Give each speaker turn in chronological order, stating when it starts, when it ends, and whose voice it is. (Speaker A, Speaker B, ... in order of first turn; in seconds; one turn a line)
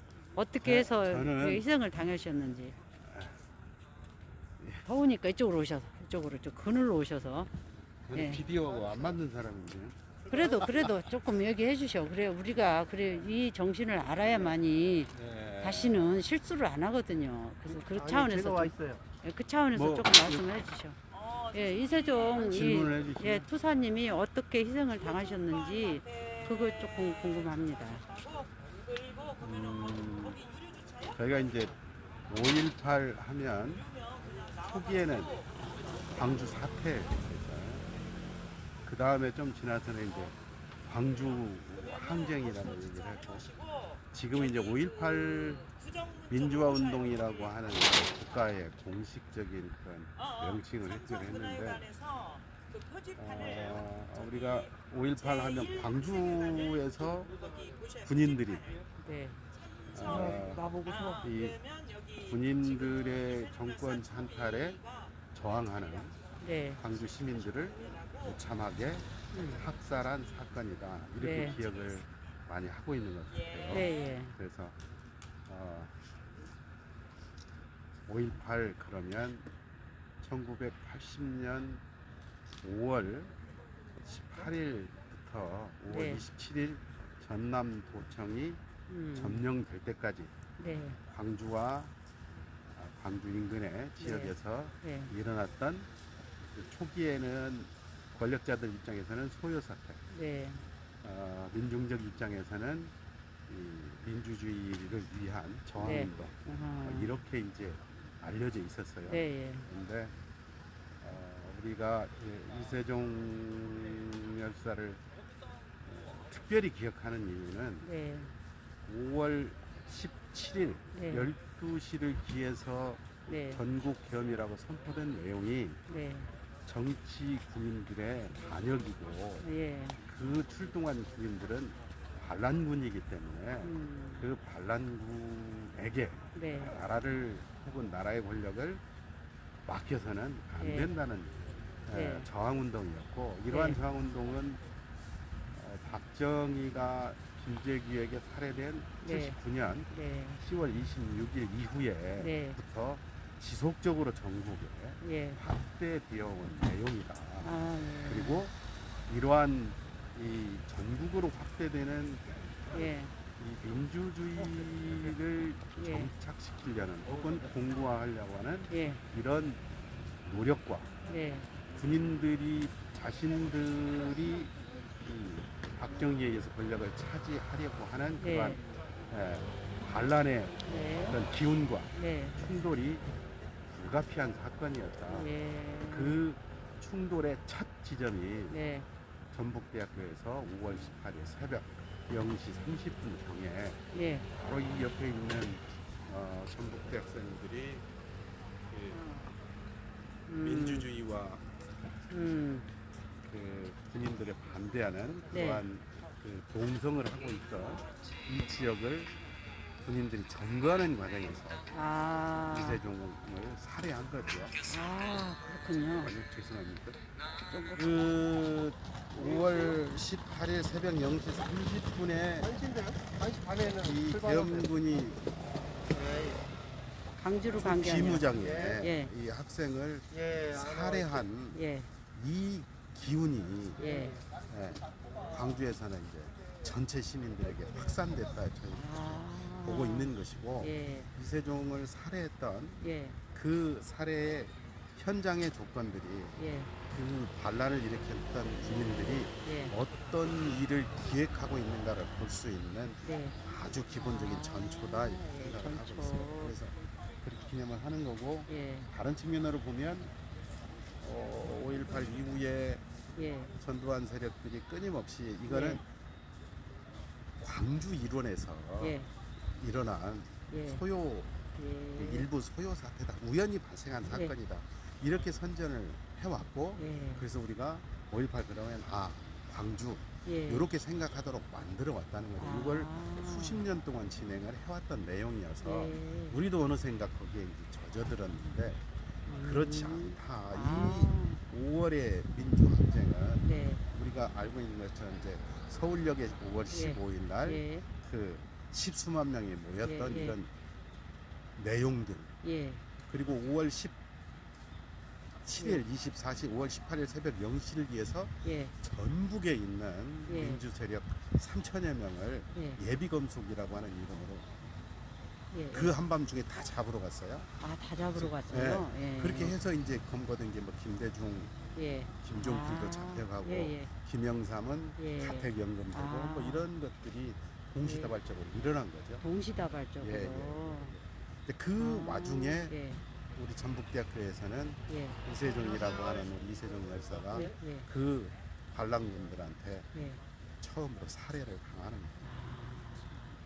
Speaker A: 0.3-2.8
Speaker B: 0.6-1.7
Speaker B: 3.1-3.4
Speaker B: 4.6-4.8
Speaker A: 4.8-7.5
Speaker B: 8.1-11.0
Speaker A: 8.1-8.4
Speaker A: 10.3-21.0
Speaker C: 18.7-19.0
Speaker B: 19.7-20.5
Speaker A: 21.5-28.1
Speaker B: 22.4-23.5
Speaker B: 29.4-30.4
Speaker B: 31.1-31.8
Speaker B: 32.3-33.9
Speaker B: 34.6-35.5
Speaker B: 36.1-37.9
Speaker B: 38.9-43.5
Speaker B: 44.1-45.7
Speaker B: 46.3-51.9
Speaker B: 53.2-57.4
Speaker B: 58.0-58.8
Speaker A: 59.0-59.4
Speaker B: 59.9-61.6
Speaker C: 60.7-61.2
Speaker B: 62.2-64.8
Speaker B: 65.3-66.2
Speaker A: 66.4-66.8
Speaker B: 66.8-74.8
Speaker A: 69.3-69.6
Speaker A: 71.2-71.6
Speaker A: 73.7-74.3
Speaker B: 75.5-75.9
Speaker B: 78.1-79.5
Speaker B: 80.2-81.8
Speaker B: 82.6-83.3
Speaker B: 84.0-88.6
Speaker A: 85.9-86.2
Speaker A: 88.9-89.4
Speaker B: 89.1-90.3
Speaker A: 90.6-91.0
Speaker B: 91.1-91.9
Speaker B: 92.7-95.9
Speaker A: 94.0-95.1
Speaker B: 96.5-100.0
Speaker A: 100.1-100.6
Speaker B: 101.0-102.9
Speaker B: 103.5-110.1
Speaker A: 105.8-107.1
Speaker A: 109.1-109.7
Speaker B: 111.0-115.0
Speaker B: 115.8-117.9
Speaker A: 117.8-118.3
Speaker B: 118.9-125.8
Speaker A: 120.9-121.3
Speaker A: 123.3-123.6
Speaker A: 125.9-126.3
Speaker B: 126.7-129.5
Speaker A: 129.4-130.0
Speaker B: 130.0-138.8
Speaker A: 133.6-134.2
Speaker A: 136.3-136.7
Speaker B: 139.7-144.6
Speaker A: 140.6-140.9
Speaker A: 141.9-142.3
Speaker A: 143.5-143.8
Speaker B: 145.5-158.6
Speaker A: 149.1-149.4
Speaker A: 149.9-150.4
Speaker A: 152.2-152.6
Speaker A: 155.0-155.4
Speaker A: 157.4-158.4
Speaker B: 159.1-162.9
Speaker A: 162.7-163.1
Speaker B: 163.4-169.6
Speaker A: 165.8-166.1
Speaker A: 168.7-169.0
Speaker B: 170.2-170.9
Speaker A: 171.1-171.5
Speaker B: 171.8-183.0
Speaker A: 178.2-178.6
Speaker A: 180.7-181.2
Speaker A: 182.0-182.4
Speaker B: 183.7-185.3
Speaker A: 185.1-186.2
Speaker B: 185.8-188.6
Speaker A: 188.5-188.9
Speaker B: 189.3-193.8
Speaker A: 193.9-194.3
Speaker B: 194.3-197.8
Speaker B: 198.7-199.1
Speaker A: 198.9-199.3
Speaker A: 200.3-200.9
Speaker B: 200.4-201.4
Speaker A: 202.1-202.7
Speaker B: 203.3-209.1
Speaker A: 205.3-205.6
Speaker B: 209.8-211.7
Speaker A: 211.7-212.8
Speaker B: 212.4-214.6
Speaker A: 214.7-216.2
Speaker B: 216.0-217.0
Speaker A: 217.5-217.9
Speaker B: 217.7-222.6
Speaker C: 222.7-223.7
Speaker B: 223.7-225.2
Speaker A: 227.2-228.3
Speaker B: 227.5-231.6
Speaker A: 228.8-229.1
Speaker A: 231.5-231.9
Speaker B: 232.1-233.9
Speaker A: 233.8-234.2
Speaker B: 234.5-246.4
Speaker A: 238.7-240.1
Speaker A: 240.6-241.1
Speaker A: 242.8-243.2
Speaker A: 246.4-246.7
Speaker B: 246.9-260.1
Speaker A: 249.4-249.7
Speaker A: 253.0-253.4
Speaker A: 254.0-256.6
Speaker A: 258.5-258.9
Speaker B: 261.0-262.8
Speaker A: 263.2-263.5
Speaker B: 263.6-265.9
Speaker A: 265.5-265.8
Speaker B: 267.4-269.0
Speaker A: 268.8-269.1
Speaker B: 269.6-271.3
Speaker A: 270.5-270.8
Speaker A: 271.6-272.2
Speaker B: 272.0-288.8
Speaker A: 276.8-277.2
Speaker A: 280.3-280.7
Speaker A: 282.4-283.6
Speaker A: 285.6-286.4
Speaker A: 289.3-291.4
Speaker B: 289.4-300.5
Speaker A: 293.4-293.8
Speaker A: 296.7-297.8
Speaker A: 299.8-300.4
Speaker B: 301.6-302.3
Speaker A: 302.4-302.8
Speaker B: 303.1-303.9
Speaker B: 305.4-314.5
Speaker A: 308.4-308.7
Speaker A: 310.3-310.6
Speaker A: 312.6-312.8
Speaker A: 315.5-315.9
Speaker B: 315.7-317.5
Speaker A: 317.6-319.5
Speaker B: 318.1-321.5
Speaker A: 321.8-323.9
Speaker B: 322.2-329.2
Speaker A: 325.0-326.6
Speaker A: 327.8-328.1
Speaker A: 329.2-330.9
Speaker B: 330.0-332.8
Speaker A: 331.8-333.0
Speaker B: 333.4-339.9
Speaker A: 334.9-335.2
Speaker A: 337.3-337.9
Speaker A: 339.9-340.2
Speaker B: 340.6-342.3
Speaker A: 342.2-343.2